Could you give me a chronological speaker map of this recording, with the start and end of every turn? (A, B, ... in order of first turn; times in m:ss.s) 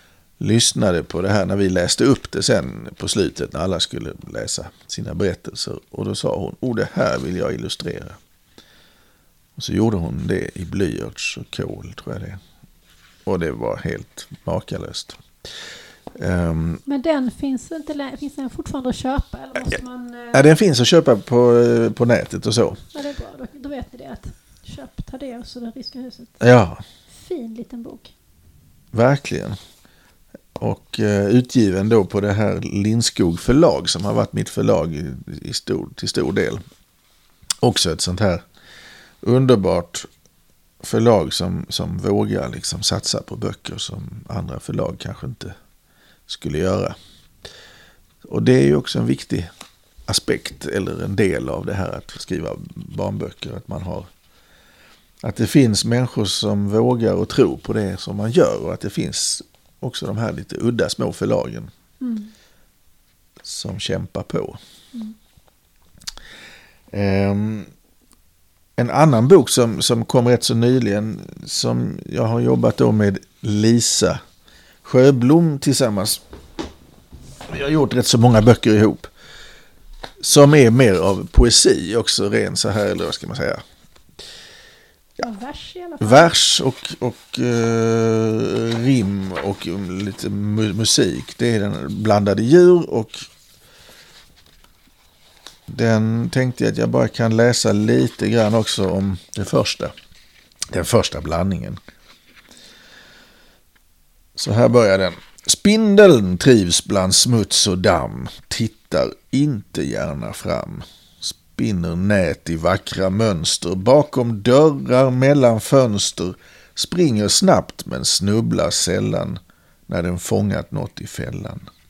0:00.4-0:08.2 A
0:09.6-0:12.4 A
0:13.2-0:15.3 A
0:16.1-0:16.8 A
0:16.8-0:20.5 B
0:20.3-0:22.8 A
0:22.9-0:26.4 B
0:26.4-0:26.8 A
0:27.1-0:28.1 B
0:28.9-0:29.6 A
0:30.6-0:36.6 A
0:37.6-0:38.4 A
0:39.2-0:40.1 A
0:40.8-0:45.5 A
0:46.3-0:47.0 A
0:48.2-0:49.5 A
0:50.1-0:54.1 A
0:55.2-1:01.7 A
1:02.0-1:02.3 B
1:03.4-1:04.6 A
1:06.9-1:07.7 A
1:08.8-1:14.2 A
1:14.8-1:16.2 A
1:17.5-1:19.1 A
1:20.2-1:23.6 A
1:25.2-1:26.3 B
1:26.0-1:33.3 A
1:35.7-1:39.9 A
1:40.7-1:41.8 A
1:44.3-2:01.6 A